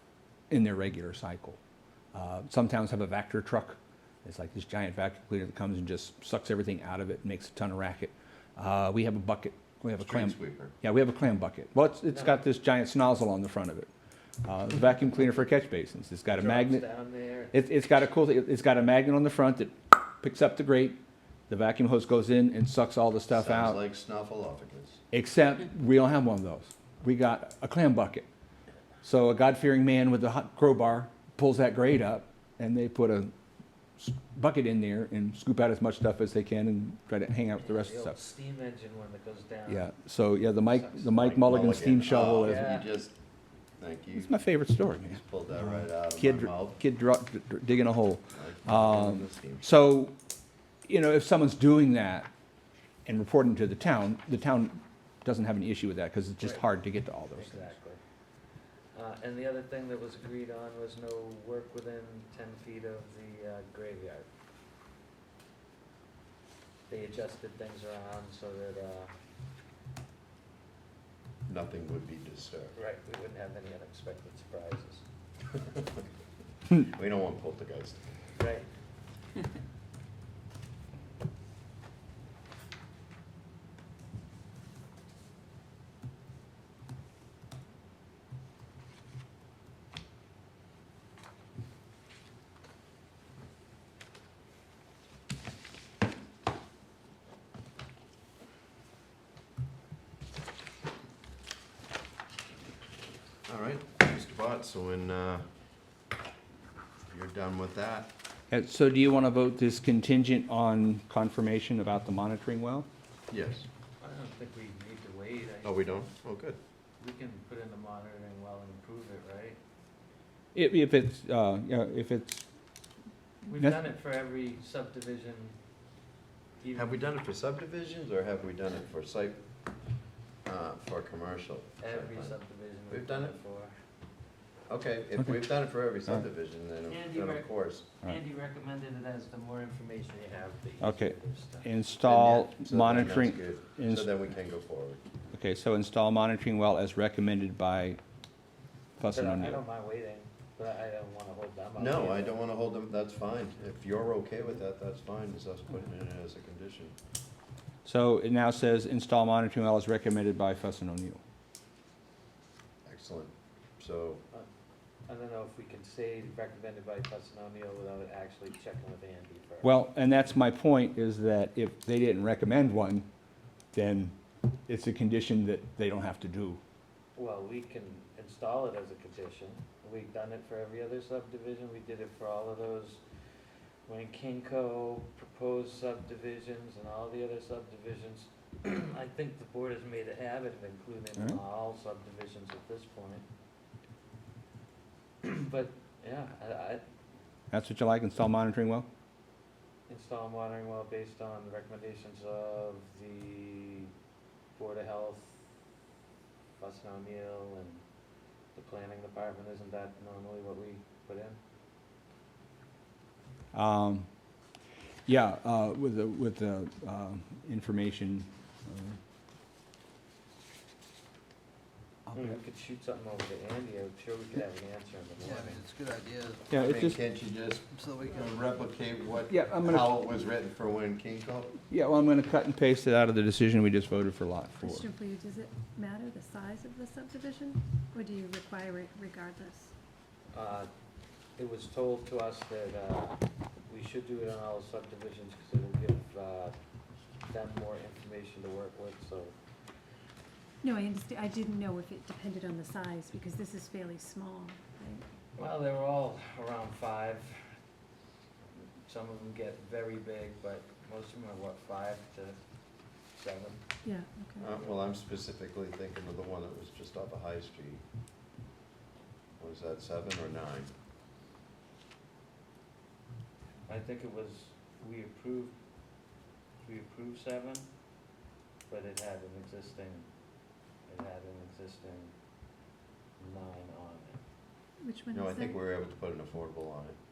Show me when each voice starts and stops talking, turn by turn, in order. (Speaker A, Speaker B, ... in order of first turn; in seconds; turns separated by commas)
Speaker A: 0.5-1.6, Speaker A: 2.1-13.9, Speaker B: 10.0-10.8, Speaker C: 12.1-12.4, Speaker A: 14.4-16.8, Speaker C: 16.4-17.5, Speaker A: 17.5-23.8, Speaker B: 23.3-25.0, Speaker A: 25.1-28.3, Speaker A: 29.0-33.3, Speaker A: 34.0-38.2, Speaker C: 37.6-39.9, Speaker A: 39.7-42.8, Speaker C: 40.7-41.1, Speaker B: 41.1-43.2, Speaker C: 42.4-42.9, Speaker B: 43.8-44.4, Speaker A: 44.1-50.1, Speaker B: 45.1-46.8, Speaker B: 48.3-49.6, Speaker A: 50.9-52.3, Speaker A: 53.1-57.7, Speaker C: 57.4-58.0, Speaker C: 58.9-64.3, Speaker C: 66.9-69.1, Speaker B: 71.5-72.7, Speaker C: 72.7-75.0, Speaker B: 75.6-76.0, Speaker B: 76.7-78.0, Speaker C: 78.4-78.7, Speaker B: 103.5-105.5, Speaker B: 107.1-108.1, Speaker A: 108.5-112.9, Speaker B: 113.3-113.7, Speaker C: 114.0-116.0, Speaker B: 115.6-116.6, Speaker C: 117.0-119.6, Speaker A: 120.5-122.5, Speaker C: 123.5-125.6, Speaker C: 126.6-127.0, Speaker B: 126.8-129.4, Speaker B: 130.5-132.4, Speaker C: 131.8-133.7, Speaker B: 132.9-133.3, Speaker B: 134.7-137.9, Speaker C: 136.9-141.7, Speaker A: 140.8-144.1, Speaker B: 142.0-145.0, Speaker A: 145.3-148.0, Speaker A: 149.0-149.6, Speaker C: 149.1-152.4, Speaker B: 151.8-157.0, Speaker A: 157.8-161.2, Speaker B: 162.8-164.2, Speaker C: 165.1-169.8, Speaker A: 169.6-173.1, Speaker A: 173.7-174.1, Speaker A: 174.7-176.6, Speaker C: 177.2-183.0, Speaker C: 183.9-193.2, Speaker C: 195.2-196.8, Speaker A: 197.5-198.9, Speaker C: 199.9-203.9, Speaker C: 204.5-205.4, Speaker C: 206.6-207.8, Speaker C: 208.6-211.4, Speaker A: 213.5-214.1, Speaker A: 215.1-219.0, Speaker A: 222.1-222.3, Speaker C: 222.1-225.6, Speaker D: 225.2-226.6, Speaker A: 226.5-227.0, Speaker B: 226.5-231.5, Speaker D: 227.7-228.5, Speaker A: 229.3-230.0, Speaker A: 231.7-234.9, Speaker E: 234.6-239.7, Speaker C: 240.3-240.7, Speaker C: 241.4-246.6, Speaker C: 247.3-249.3, Speaker E: 250.6-255.0, Speaker C: 255.4-257.5, Speaker C: 258.6-262.4, Speaker C: 263.1-263.6, Speaker E: 263.8-264.5, Speaker B: 264.4-267.8, Speaker B: 269.4-270.7, Speaker C: 273.7-275.6, Speaker C: 276.6-277.7, Speaker C: 278.7-280.1, Speaker C: 280.9-282.1, Speaker C: 283.2-284.2, Speaker E: 284.8-285.6, Speaker B: 285.1-287.0